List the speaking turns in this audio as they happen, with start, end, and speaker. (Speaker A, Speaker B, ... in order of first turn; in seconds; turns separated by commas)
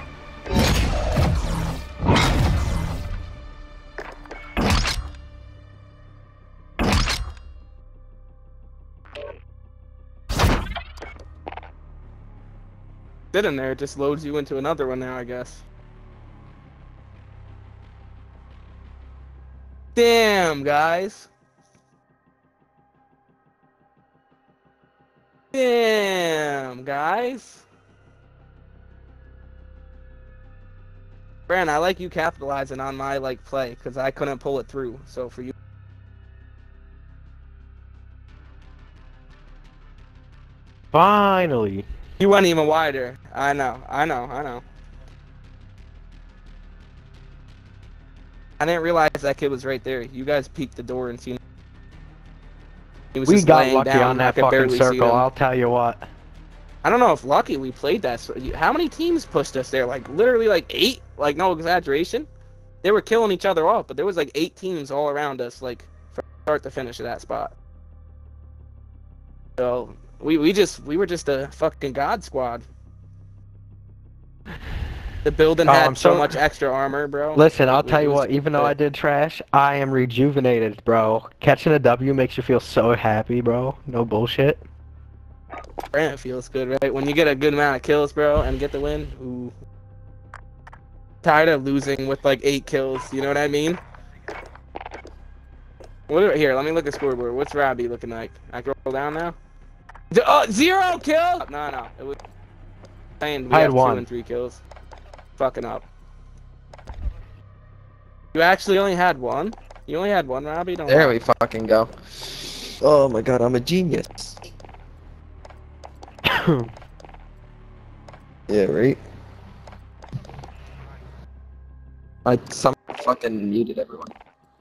Speaker A: 13.3-15.6, Speaker A: 19.9-21.3, Speaker A: 25.5-27.6, Speaker A: 31.5-35.5, Speaker B: 40.9-41.9, Speaker A: 42.2-44.6, Speaker A: 48.6-51.4, Speaker A: 53.1-55.2, Speaker B: 53.2-56.0, Speaker A: 56.8-62.3, Speaker A: 62.8-67.5, Speaker A: 69.6-72.6, Speaker A: 75.2-78.7, Speaker B: 75.7-76.4, Speaker B: 77.3-84.6, Speaker A: 85.9-89.5, Speaker A: 91.2-93.8, Speaker A: 96.1-99.3, Speaker A: 100.1-102.2, Speaker A: 103.2-104.6, Speaker B: 103.5-104.0, Speaker A: 105.4-105.8, Speaker A: 108.3-111.2, Speaker C: 110.9-114.4, Speaker B: 116.2-116.7, Speaker C: 118.5-119.0, Speaker C: 122.2-124.1